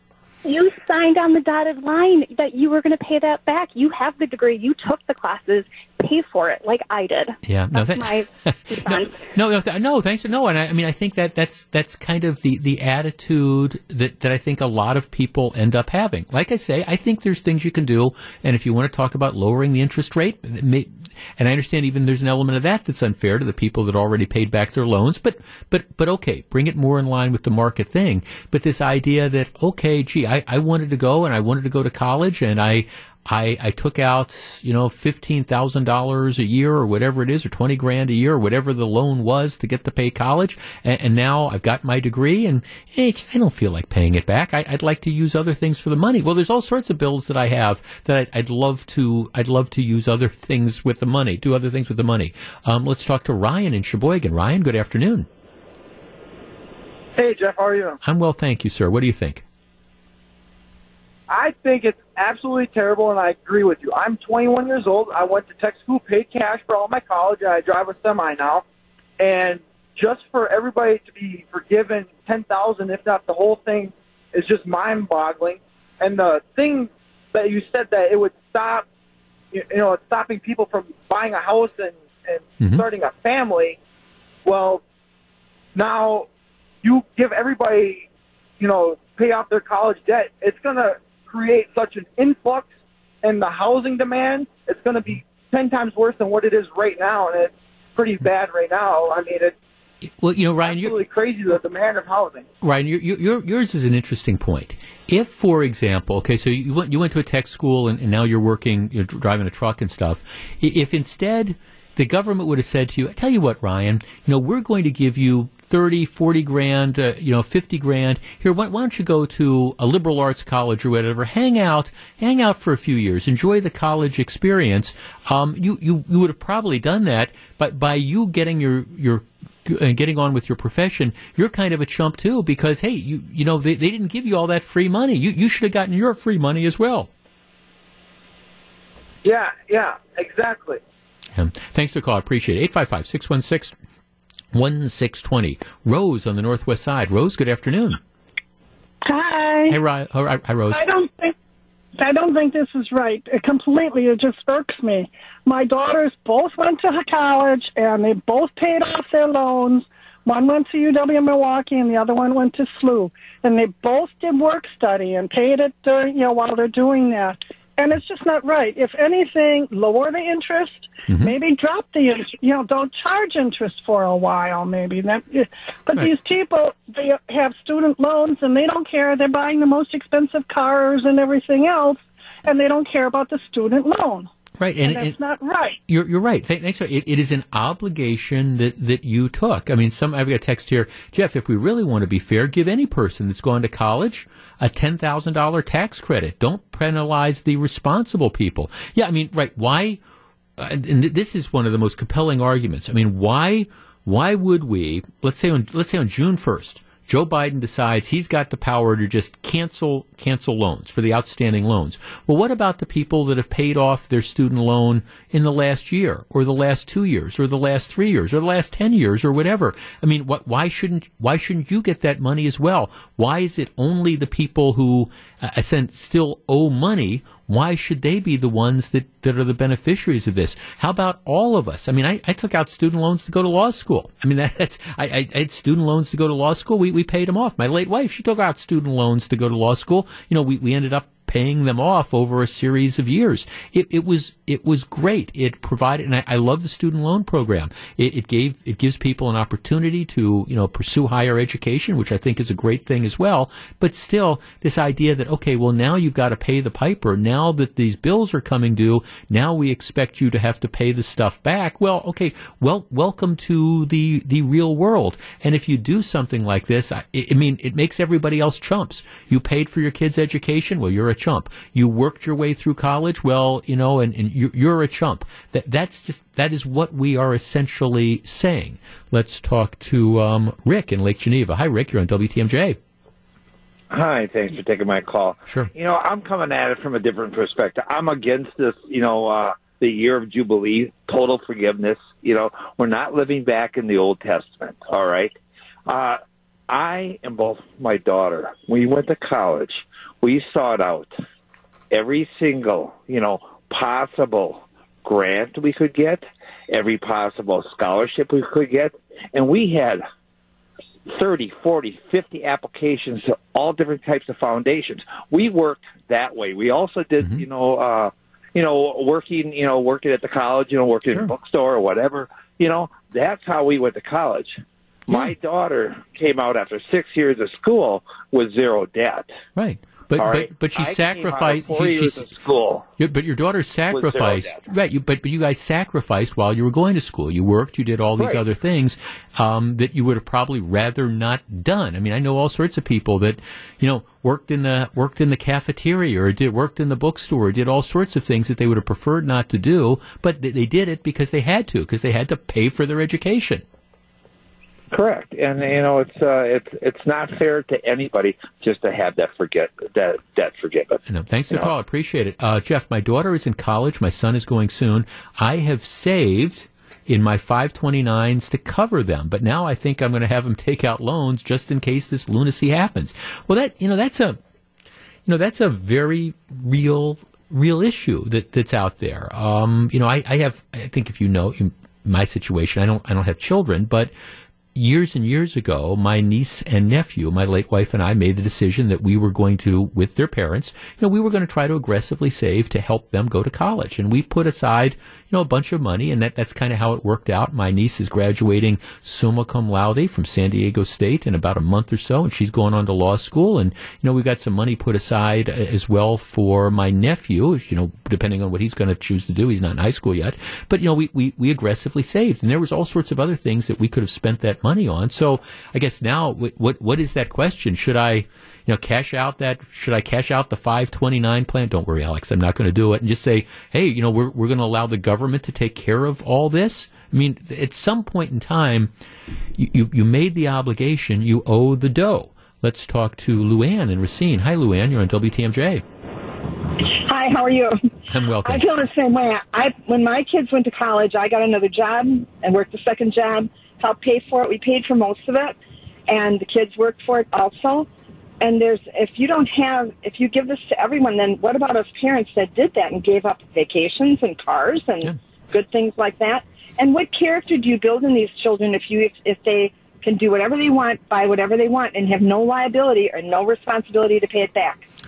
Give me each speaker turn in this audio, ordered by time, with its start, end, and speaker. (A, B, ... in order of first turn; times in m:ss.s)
0:00.4-0:09.2 A
0:07.4-0:55.3 B
0:57.2-0:58.0 C
0:58.0-0:59.4 B
1:01.3-1:08.6 C
1:09.2-1:18.8 C
1:19.5-1:23.8 C
1:22.6-1:22.8 B
1:24.4-1:24.8 C
1:25.7-1:26.3 C
1:26.8-1:28.0 C
1:28.6-1:32.7 C
1:33.2-1:39.5 C
1:40.2-1:41.0 B
1:40.6-1:42.4 C
1:42.6-2:17.1 B
2:19.2-2:20.8 C
2:21.3-2:23.8 B
2:24.5-2:28.0 B
2:29.0-2:29.8 D
2:29.7-2:30.8 B
2:30.7-2:31.3 D
2:32.0-3:04.3 D
2:51.1-2:51.3 B
3:04.6-3:05.2 B
3:04.8-3:05.8 D
3:05.9-3:20.0 B
3:20.6-4:42.8 B
4:43.9-5:01.2 E
5:01.9-5:10.0 E
5:11.1-5:29.3 E
5:25.1-5:25.3 B
5:29.6-5:32.3 B
5:30.2-5:32.9 E
5:33.0-5:53.6 B
5:33.9-5:34.6 E
5:38.2-5:38.4 E
5:54.9-6:01.7 E
6:01.0-6:14.4 B
6:15.2-6:24.1 B
6:24.7-7:08.9 B
7:09.6-7:15.8 B
7:16.8-7:17.8 F
7:18.1-7:18.7 B
7:18.4-7:25.5 F
7:26.1-7:27.9 F
7:28.4-7:44.8 F